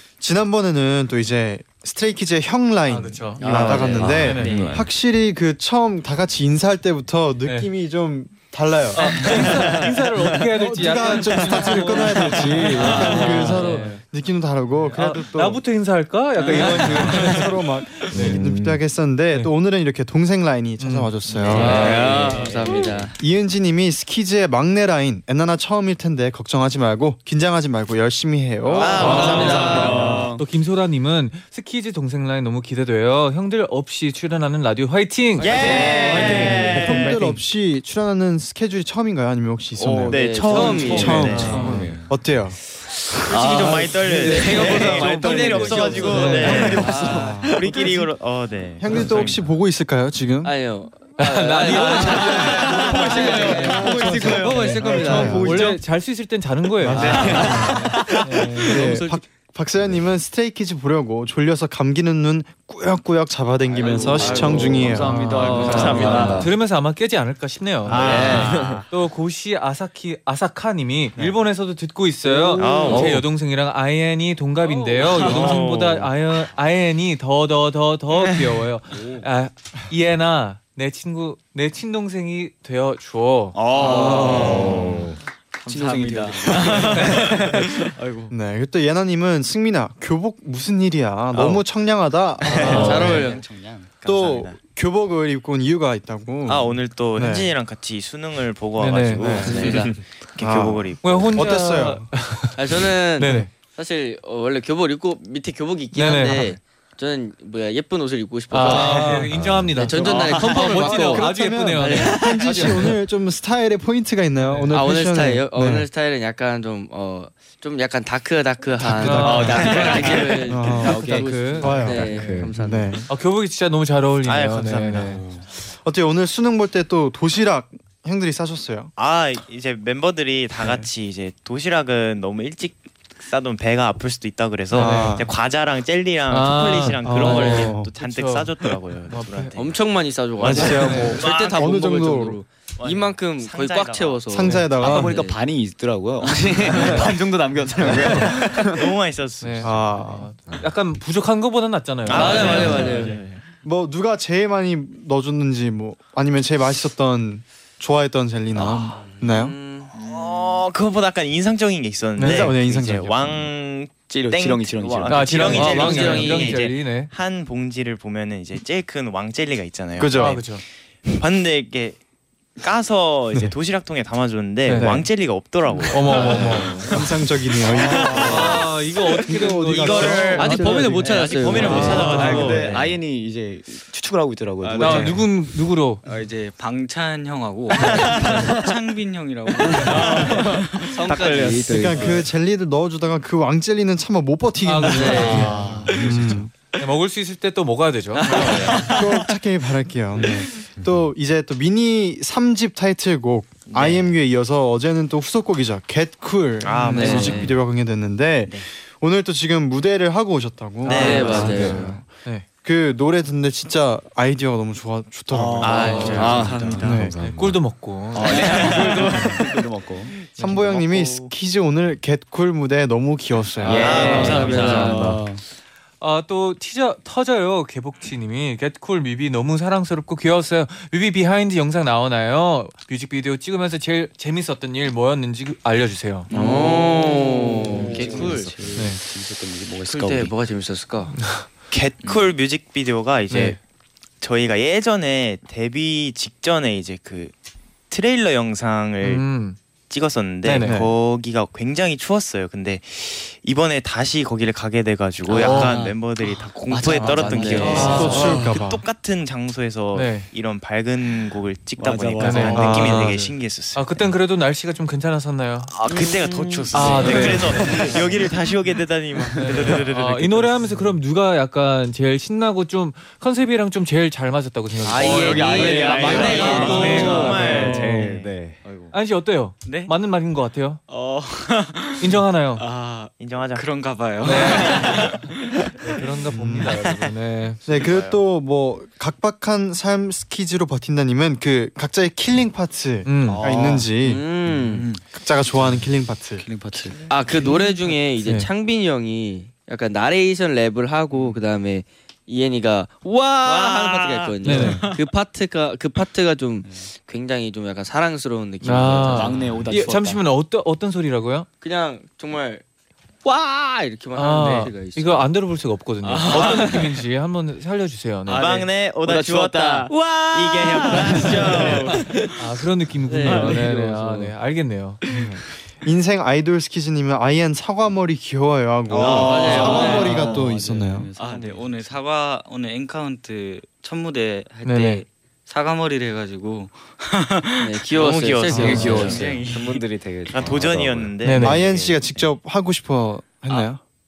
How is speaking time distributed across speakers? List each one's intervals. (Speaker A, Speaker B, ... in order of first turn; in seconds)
Speaker A: 0.2-15.6, 16.4-22.5, 23.2-30.0, 35.7-42.6, 46.3-47.9, 48.8-50.5, 52.8-55.8, 56.8-66.3, 88.3-93.2, 94.0-97.5, 100.4-102.1, 108.6-109.4, 110.1-115.9, 118.8-119.9, 120.4-123.1, 125.8-128.9, 134.7-135.3, 137.0-137.9, 140.4-142.4, 144.3-145.2, 146.7-147.0, 149.6-150.3, 152.5-152.8, 153.6-159.6, 162.2-163.5, 170.0-170.4, 174.7-175.1, 176.1-182.4, 191.4-196.5, 198.3-212.1, 212.6-216.1, 216.8-217.2, 220.3-224.4, 250.6-250.9, 257.6-258.8, 262.5-263.3, 286.3-286.9, 287.6-294.2, 295.1-296.4, 325.8-331.1, 338.5-338.9, 341.4-343.8
Speaker B: 2.9-4.6, 8.9-14.0, 14.8-18.5, 20.8-22.4, 28.9-36.9, 40.5-41.9, 44.1-46.8, 51.2-58.9, 64.9-83.6, 92.5-93.2, 98.8-99.9, 101.0-103.5, 105.9-106.5, 108.5-112.9, 114.4-114.8, 118.8-122.4, 123.1-125.2, 134.7-135.2, 136.3-138.5, 139.1-139.5, 140.8-141.2, 144.4-145.1, 147.8-148.3, 149.4-153.1, 162.2-162.5, 165.1-167.1, 170.2-170.6, 174.7-175.0, 175.9-176.8, 178.1-182.6, 184.8-186.0, 194.6-196.0, 196.7-198.9, 207.0-207.3, 211.0-212.4, 217.2-218.8, 223.9-225.1, 226.0-236.3, 238.7-239.0, 241.2-241.4, 243.3-243.6, 249.0-249.6, 250.4-250.7, 255.3-255.7, 257.6-258.4, 259.9-260.3, 262.2-263.1, 263.7-265.7, 266.7-267.8, 269.4-278.1, 278.9-280.8, 282.0-282.6, 284.2-285.2, 285.8-287.6, 293.0-293.4, 304.4-304.9, 308.6-311.5, 314.1-318.5, 322.4-325.0, 334.6-335.0, 338.6-339.1, 341.2-341.6
Speaker C: 3.4-4.6, 21.5-22.6, 28.9-30.4, 35.5-36.6, 43.2-47.5, 52.4-54.2, 56.9-58.2, 63.8-66.5, 67.9-68.8, 72.3-73.0, 78.9-79.2, 83.5-85.0, 85.6-87.7, 92.5-93.9, 99.4-99.8, 119.7-121.8, 144.8-148.9, 164.1-166.2, 176.1-177.1, 177.7-178.6, 179.7-185.3, 187.9-188.5, 189.6-190.6, 194.9-196.3, 215.3-217.0, 218.1-221.0, 223.6-225.4, 236.3-240.3, 255.3-255.7, 256.7-258.6, 261.8-263.1, 265.9-268.3, 269.3-269.8, 274.9-278.1, 293.2-293.9, 296.4-297.1, 309.0-310.2, 323.2-323.7, 328.9-332.0, 338.6-339.3
Speaker D: 3.4-4.2, 12.6-14.0, 16.5-17.1, 21.4-23.1, 28.7-30.2, 35.5-36.9, 39.8-41.6, 44.1-47.9, 50.4-55.8, 57.0-58.0, 58.7-59.2, 63.8-66.4, 83.8-84.7, 86.6-87.3, 92.5-93.5, 99.4-99.9, 102.5-112.9, 114.7-123.0, 137.2-137.6, 139.6-145.4, 152.1-153.2, 158.6-160.0, 165.4-166.7, 180.3-182.8, 190.0-192.3, 194.9-195.7, 198.3-199.0, 206.9-207.5, 210.9-211.9, 215.6-216.8, 223.8-225.0, 236.3-238.7, 239.8-241.1, 257.2-258.1, 274.8-277.6, 294.0-294.9, 297.1-309.8, 311.6-312.6, 313.2-315.3, 316.0-317.0, 318.3-322.3, 323.1-324.3, 329.0-330.4, 337.6-339.3
Speaker E: 4.2-4.9, 18.1-18.8, 41.5-42.2, 68.0-68.8, 72.9-73.2, 84.3-85.2, 92.7-93.2, 109.2-109.9, 122.0-122.5, 211.4-211.7, 215.9-217.6, 224.2-225.1, 237.9-238.6, 277.0-278.6, 338.7-341.2
Speaker F: 4.4-4.8, 35.5-36.2, 52.6-54.5, 74.8-75.3, 83.7-84.8, 85.6-88.3, 160.0-160.6, 176.5-176.8, 184.6-185.3, 186.0-192.1, 198.7-199.1, 215.9-217.1, 242.0-242.3, 255.3-255.9, 256.7-258.4, 275.3-277.5, 278.1-278.9, 279.6-279.9, 280.9-285.7, 296.5-297.6, 303.4-305.1, 316.0-316.9, 319.9-321.9, 329.5-330.4, 331.1-338.0, 338.5-339.9
Speaker G: 28.8-30.0, 35.4-37.3, 40.1-41.7, 43.1-49.5, 65.5-66.5, 67.8-68.8, 72.6-73.2, 75.0-76.1, 91.3-91.6, 94.0-94.6, 96.5-101.4, 124.2-125.3, 129.0-139.8, 140.4-141.6, 142.8-144.2, 148.1-149.8, 152.1-153.4, 159.9-170.5, 171.1-172.0, 172.6-176.4, 181.1-182.7, 203.7-204.0, 206.6-207.5, 210.8-211.8, 215.6-216.6, 218.2-219.2, 223.6-224.9, 236.5-236.9, 241.7-243.6, 244.2-247.3, 247.9-249.2, 249.9-264.0, 265.8-270.6, 275.4-278.0, 283.2-283.7, 287.7-288.2, 318.3-322.1, 337.9-339.2, 340.3-342.3